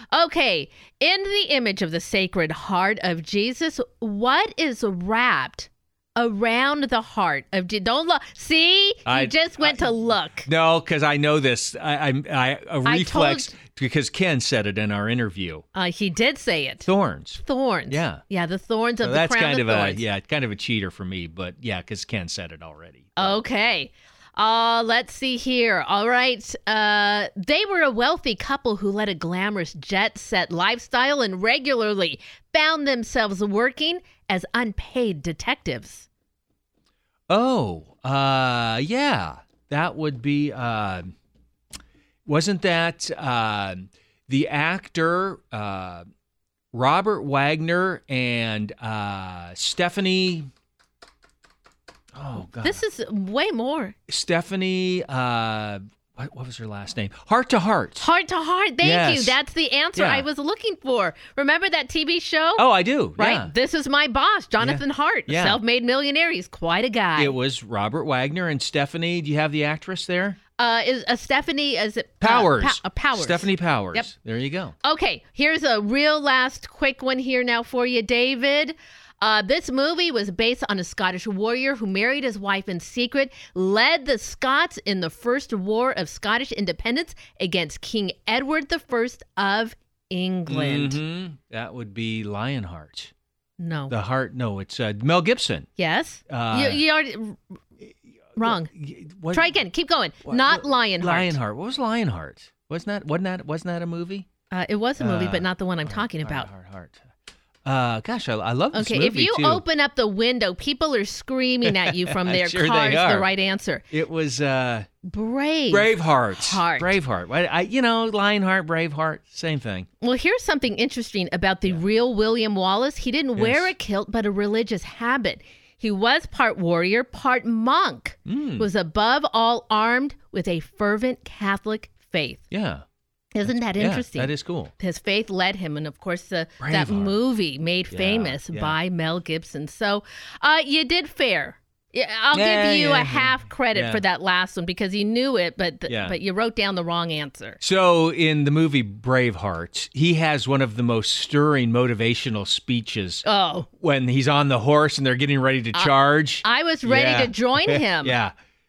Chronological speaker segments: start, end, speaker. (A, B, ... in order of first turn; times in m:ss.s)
0:00.1-0:10.5 A
0:09.0-0:09.9 B
0:10.4-0:15.6 B
0:12.8-0:13.5 A
0:15.7-0:16.9 A
0:16.8-0:18.2 B
0:17.4-0:20.0 A
0:19.0-0:23.4 B
0:23.2-0:36.1 A
0:37.3-0:41.1 B
0:42.2-0:46.0 B
0:46.7-0:50.5 B
0:52.1-0:52.8 B
0:52.6-0:54.0 A
0:54.1-0:58.1 B
0:58.0-1:07.4 A
0:58.8-0:59.4 B
0:59.9-1:00.2 B
1:02.6-1:03.5 B
1:04.6-1:05.6 B
1:07.2-1:10.4 B
1:10.6-1:14.1 A
1:12.2-1:14.7 B
1:14.8-1:31.0 A
1:30.5-1:33.1 B
1:33.6-1:33.9 A
1:33.9-1:35.7 B
1:35.8-1:37.4 A
1:36.3-1:36.8 B
1:38.3-1:39.6 B
1:38.4-1:38.7 A
1:39.3-1:41.4 A
1:40.2-1:44.3 B
1:44.5-1:46.5 A
1:45.0-1:47.0 B
1:47.6-1:49.6 B
1:48.7-1:53.8 A
1:51.6-1:53.3 B
1:53.9-1:54.9 B
1:55.0-1:57.0 A
1:55.7-1:59.9 B
2:00.0-2:12.4 A
2:03.4-2:03.7 B
2:08.3-2:08.7 B
2:12.5-2:12.8 B
2:13.3-2:27.6 A
2:13.5-2:14.7 B
2:16.6-2:17.2 B
2:17.9-2:18.8 B
2:22.3-2:24.0 B
2:25.9-2:26.2 B
2:27.6-2:33.2 B
2:33.2-2:33.7 A
2:33.8-2:38.3 B
2:35.7-2:38.2 A